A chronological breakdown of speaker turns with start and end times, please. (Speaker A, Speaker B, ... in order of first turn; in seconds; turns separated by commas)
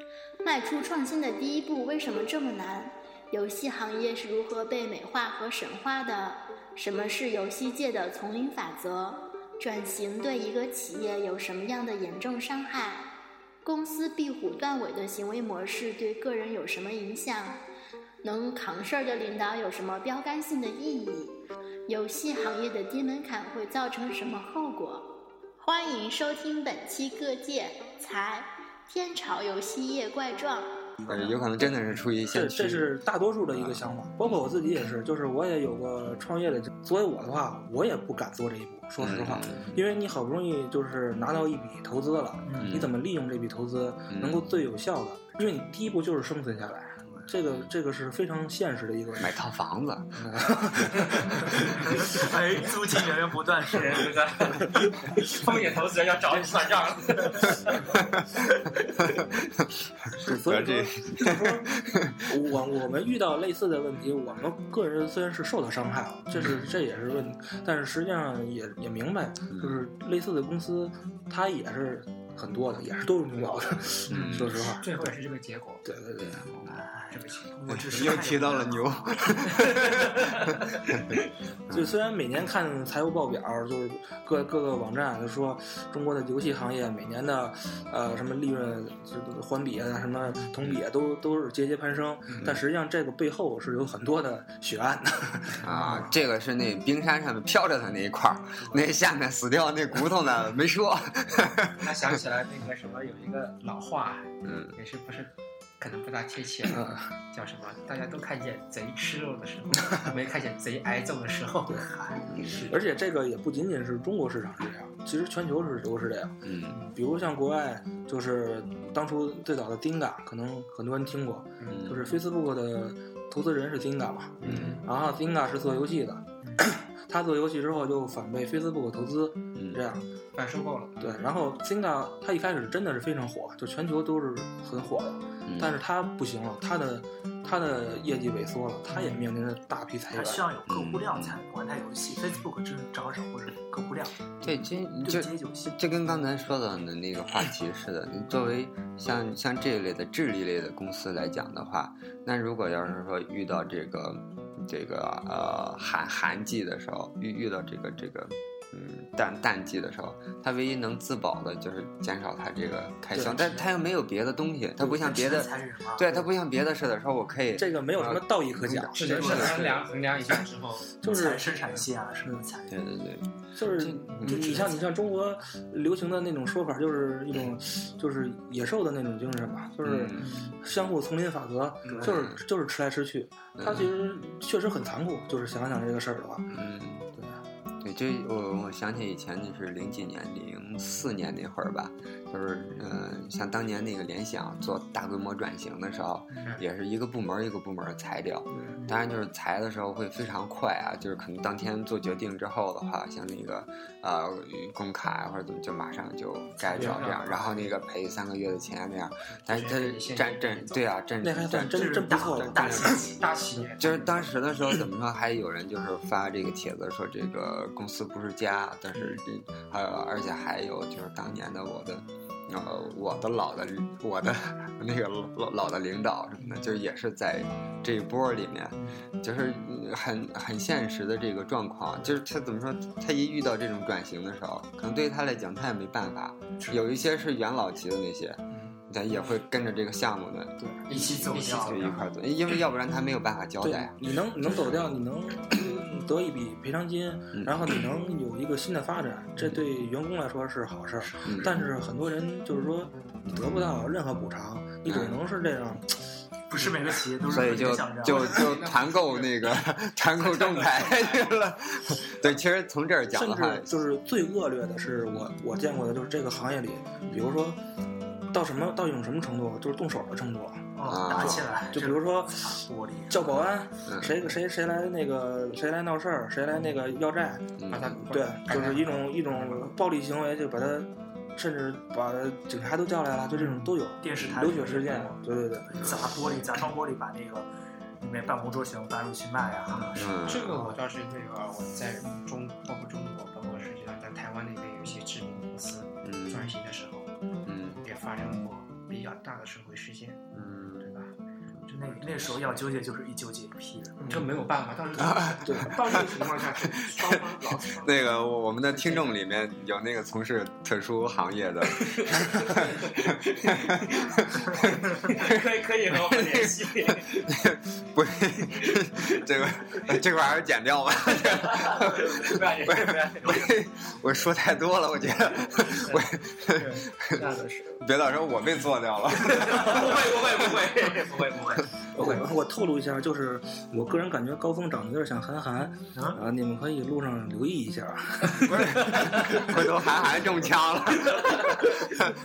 Speaker A: 0.4-13.1, Speaker A: 13.6-17.6, Speaker A: 18.2-30.9, Speaker B: 31.0-31.4, Speaker C: 31.1-32.9, Speaker D: 32.3-49.4, Speaker C: 33.5-33.8, Speaker C: 39.0-39.9, Speaker B: 42.5-42.8, Speaker C: 42.6-42.9, Speaker C: 44.1-44.5, Speaker C: 49.2-50.2, Speaker D: 50.2-51.8, Speaker B: 52.0-54.2, Speaker E: 53.7-58.0, Speaker C: 59.2-62.2, Speaker D: 60.2-74.9, Speaker C: 69.5-69.8, Speaker C: 74.1-74.6, Speaker E: 74.1-75.8, Speaker D: 75.8-76.5, Speaker C: 76.2-76.8, Speaker B: 77.0-78.9, Speaker E: 77.1-77.5, Speaker C: 77.7-81.2, Speaker E: 79.6-80.8, Speaker D: 81.7-96.0, Speaker C: 95.6-101.9, Speaker E: 101.8-112.8, Speaker C: 104.4-104.8, Speaker D: 106.7-107.1, Speaker B: 112.0-112.2, Speaker C: 112.3-112.6, Speaker D: 112.7-130.1, Speaker C: 116.5-116.8, Speaker C: 121.7-122.2, Speaker C: 124.4-124.8, Speaker E: 124.5-124.7, Speaker C: 129.6-129.8, Speaker E: 130.3-131.1, Speaker D: 131.0-140.4, Speaker C: 135.5-135.8, Speaker B: 140.1-145.8, Speaker C: 140.7-141.4, Speaker C: 144.4-169.7, Speaker D: 163.2-163.5, Speaker B: 164.8-166.1, Speaker D: 167.6-169.7, Speaker E: 169.0-171.0, Speaker B: 169.0-169.6, Speaker D: 171.0-171.5, Speaker B: 171.0-172.8, Speaker C: 172.7-174.5, Speaker D: 173.6-186.5, Speaker B: 174.2-174.8, Speaker C: 179.8-180.3, Speaker B: 180.2-180.6, Speaker C: 182.0-182.4, Speaker C: 183.6-183.9, Speaker C: 186.5-187.1, Speaker C: 187.8-213.0, Speaker E: 206.6-207.7, Speaker E: 209.5-210.8, Speaker D: 211.2-212.9, Speaker B: 211.7-213.2, Speaker E: 212.6-214.2, Speaker C: 213.8-244.8, Speaker B: 228.8-229.0, Speaker E: 240.9-242.1, Speaker B: 240.9-241.9, Speaker D: 243.6-256.0, Speaker C: 247.3-247.7, Speaker B: 251.0-251.3, Speaker C: 251.2-251.5, Speaker C: 253.3-253.6, Speaker C: 254.9-255.2, Speaker B: 256.5-258.5, Speaker C: 257.3-263.8, Speaker E: 258.0-261.3, Speaker D: 263.1-267.6, Speaker D: 268.3-272.6, Speaker B: 270.8-273.4, Speaker C: 270.9-271.4, Speaker D: 273.1-277.5, Speaker C: 273.9-274.2, Speaker C: 277.6-278.0, Speaker E: 277.7-279.7, Speaker D: 278.1-285.9, Speaker B: 284.0-285.2, Speaker B: 285.7-287.5, Speaker B: 288.0-290.8, Speaker E: 289.8-297.1, Speaker C: 289.9-290.6, Speaker C: 296.0-296.5, Speaker C: 297.5-297.8, Speaker E: 297.8-301.1, Speaker C: 300.3-300.9, Speaker B: 301.7-304.1, Speaker E: 301.7-302.6, Speaker E: 304.1-308.0, Speaker C: 305.0-327.2, Speaker D: 305.4-306.0, Speaker E: 308.7-309.1, Speaker E: 311.7-317.3, Speaker E: 318.6-319.9, Speaker E: 321.1-323.5, Speaker E: 325.7-327.8, Speaker C: 327.8-330.4, Speaker E: 329.2-332.2, Speaker D: 331.9-338.7, Speaker B: 335.9-336.2, Speaker C: 338.4-341.6, Speaker E: 338.9-339.4, Speaker E: 341.0-341.9